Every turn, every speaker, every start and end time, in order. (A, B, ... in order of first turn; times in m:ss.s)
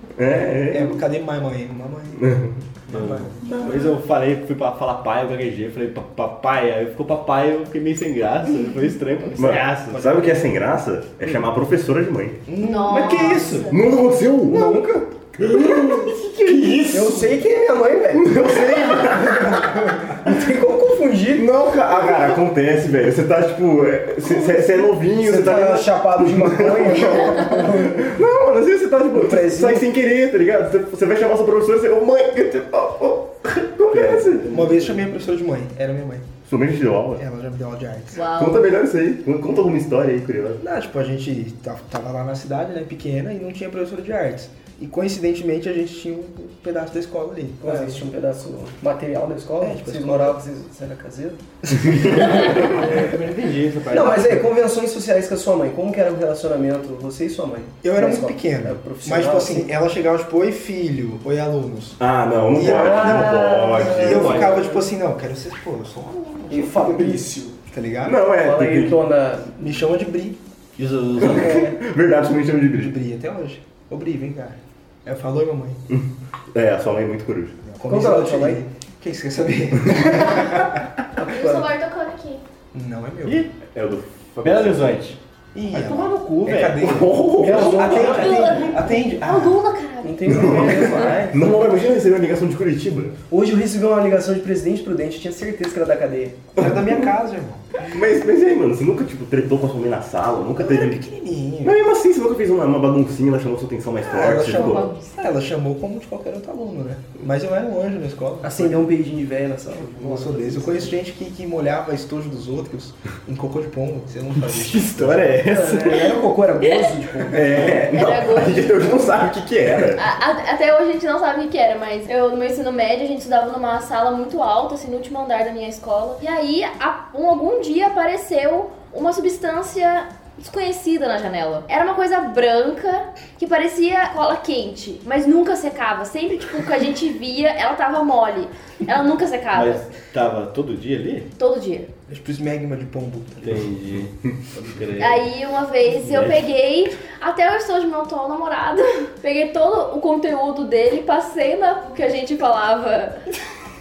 0:00.2-0:01.0 A
0:00.7-0:02.2 B
0:02.2-0:02.6 A
0:02.9-0:03.5 B
0:02.9-0:10.3 C
0:09.4-0:12.4 A
0:09.9-0:10.3 B
0:12.5-0:13.8 B
0:12.6-0:13.8 D
0:13.7-0:17.2 A
0:14.4-0:15.1 B
0:16.9-0:21.5 E
0:18.1-0:19.9 A
0:21.3-0:34.7 A
0:25.1-0:28.2 E
0:29.1-0:29.9 E
0:33.9-0:34.9 C
0:34.5-0:36.3 B
0:36.4-0:37.2 A
0:37.2-0:38.2 B
0:38.1-0:38.8 D
0:38.3-0:40.6 A
0:40.6-0:48.1 B
0:47.6-0:51.4 E
0:49.6-0:50.4 B
0:51.9-0:52.8 E
0:52.1-0:52.5 B
0:52.7-0:54.4 C
0:53.9-0:59.7 E
0:57.8-1:08.2 B
1:02.0-1:04.4 A
1:02.6-1:04.8 E
1:04.0-1:04.5 C
1:06.5-1:07.6 E
1:08.0-1:09.0 A
1:08.3-1:09.6 E
1:09.6-1:10.4 B
1:10.8-1:11.6 C
1:11.2-1:11.8 E
1:11.3-1:12.9 A
1:12.8-1:15.8 B
1:15.9-1:17.6 A
1:17.6-1:20.8 B
1:17.8-1:18.6 E
1:21.2-1:21.7 E
1:21.2-1:22.4 D
1:22.7-1:23.4 B
1:23.2-1:23.5 C
1:23.7-1:25.0 A
1:24.4-1:25.2 C
1:25.5-1:29.6 B
1:25.7-1:27.0 C
1:26.7-1:28.0 A
1:27.3-1:28.5 E
1:27.7-1:30.4 D
1:30.0-1:31.4 E
1:30.2-1:33.2 A
1:30.5-1:31.2 C
1:33.3-1:36.7 E
1:36.6-1:37.6 B
1:37.9-1:41.0 A
1:40.6-1:41.8 B
1:41.6-1:44.9 A
1:44.1-1:48.8 B
1:44.4-1:45.1 D
1:48.4-1:50.9 E
1:50.0-1:55.4 B
1:54.5-1:56.1 C
1:55.4-1:57.9 E
1:57.3-2:00.0 A
1:57.9-1:59.0 D
1:59.9-2:19.8 D
2:19.5-2:21.3 C
2:21.4-2:21.9 D
2:22.1-2:23.6 B
2:23.4-2:25.3 C
2:25.0-2:33.2 D
2:26.0-2:26.4 C